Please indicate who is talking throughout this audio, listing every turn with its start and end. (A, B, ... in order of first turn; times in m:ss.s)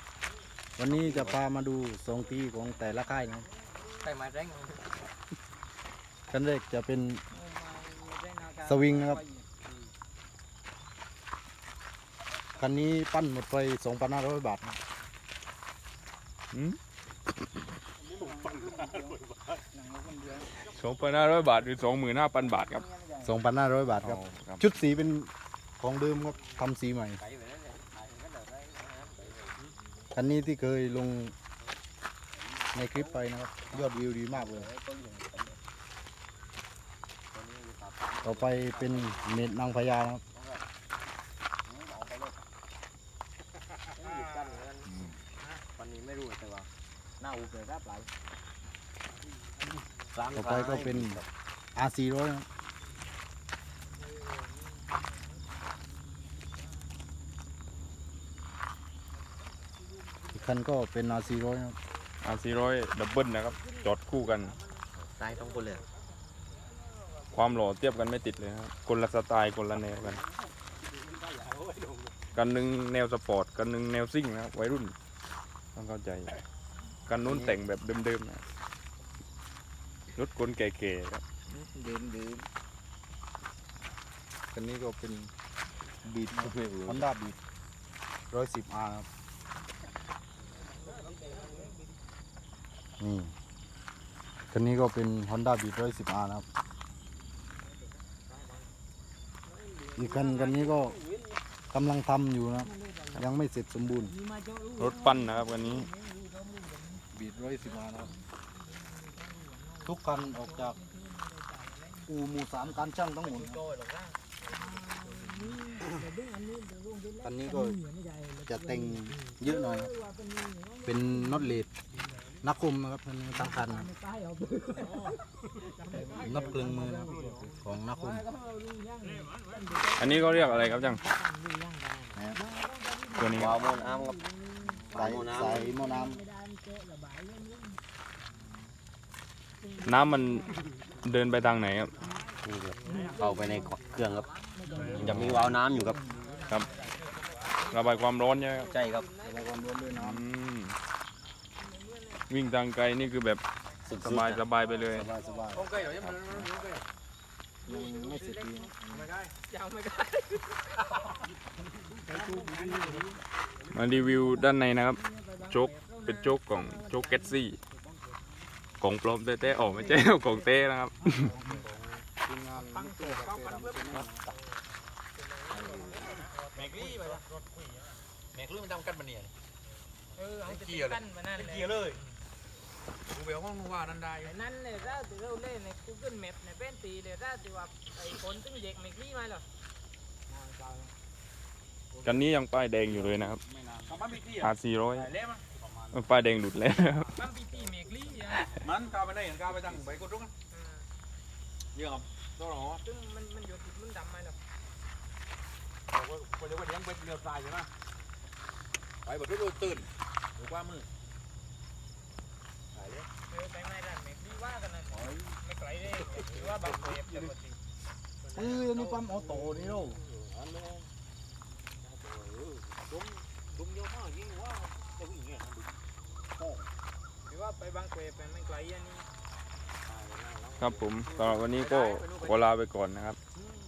0:00.8-0:03.5 A
0:00.9-0:01.4 B
0:04.0-0:04.8 B
0:06.3-0:07.2 A
0:07.3-0:09.5 C
0:08.6-0:09.2 A
0:12.6-0:14.8 A
0:16.5-0:16.8 D
0:18.5-0:19.2 B
0:20.6-0:22.8 D
0:23.2-0:27.2 A
0:24.0-0:24.7 D
0:27.2-0:29.6 B
0:30.1-0:31.3 A
0:32.4-0:35.6 B
0:32.7-0:34.7 A
0:37.3-0:39.6 B
0:38.2-0:40.2 A
0:40.3-0:40.6 B
0:41.6-0:42.4 B
0:43.9-0:45.1 B
0:45.7-0:46.7 B
0:47.2-0:48.1 B
0:49.7-0:51.3 B
0:50.3-0:51.2 A
0:51.7-0:52.4 A
1:00.3-1:01.8 A
1:02.2-1:04.6 D
1:05.0-1:05.8 B
1:07.3-1:10.2 D
1:11.2-1:12.0 E
1:12.3-1:14.9 D
1:15.8-1:16.4 D
1:17.1-1:18.4 D
1:17.2-1:17.6 A
1:20.2-1:21.2 D
1:21.6-1:22.3 A
1:24.5-1:25.3 A
1:26.0-1:27.4 A
1:26.3-1:27.0 B
1:28.3-1:29.1 A
1:33.0-1:33.3 A
1:34.5-1:36.4 A
1:40.0-1:41.0 A
1:41.7-1:44.1 A
1:44.8-1:45.9 D
1:47.1-1:48.1 A
1:49.8-1:50.8 A
1:52.1-1:53.6 A
1:55.7-1:56.8 C
1:57.2-1:57.8 A
1:58.5-1:59.9 A
2:00.8-2:01.7 A
2:02.4-2:03.9 A
2:04.4-2:04.9 C
2:06.0-2:06.4 C
2:06.1-2:08.3 A
2:08.3-2:08.8 C
2:10.0-2:11.0 D
2:12.1-2:12.4 A
2:13.2-2:13.6 D
2:13.3-2:14.2 B
2:14.8-2:16.2 A
2:14.9-2:15.7 B
2:19.8-2:20.4 D
2:21.0-2:21.9 D
2:22.4-2:24.3 B
2:22.9-2:23.2 C
2:25.0-2:26.0 B
2:25.0-2:25.5 D
2:26.3-2:29.7 C
2:27.7-2:28.7 D
2:28.6-2:29.1 B
2:29.2-2:30.2 A
2:29.9-2:30.8 D
2:31.8-2:32.1 C
2:32.3-2:33.4 D
2:33.8-2:35.1 B
2:34.0-2:35.1 D
2:34.9-2:35.7 A
2:35.5-2:36.8 E
2:37.6-2:39.1 A
2:37.7-2:38.7 C
2:38.9-2:39.3 E
2:39.5-2:40.8 C
2:42.1-2:43.0 A
2:42.4-2:42.8 C
2:43.7-2:47.6 D
2:45.6-2:46.4 C
2:48.8-2:51.3 D
2:51.1-2:54.3 A
2:52.8-2:54.0 E
2:55.4-2:57.2 C
2:55.5-2:56.0 A
2:56.5-2:57.3 E
2:58.3-2:59.3 E
3:00.2-3:01.7 C
3:00.4-3:02.0 E
3:03.1-3:04.3 E
3:04.3-3:09.4 C
3:12.0-3:13.4 D
3:13.7-3:15.5 E
3:14.3-3:15.1 D
3:15.9-3:17.1 D
3:17.2-3:18.5 C
3:18.5-3:20.3 E
3:20.5-3:20.8 C
3:21.7-3:22.8 E
3:22.8-3:24.4 C
3:25.9-3:27.7 E
3:29.0-3:30.9 E
3:32.7-3:33.1 E
3:33.3-3:37.6 C
3:36.4-3:37.3 E
3:38.3-3:39.0 C
3:38.3-3:40.0 A
3:42.9-3:45.5 E
3:47.2-3:49.1 C
3:50.0-3:50.7 B
3:50.6-3:53.2 D
3:51.0-3:52.5 E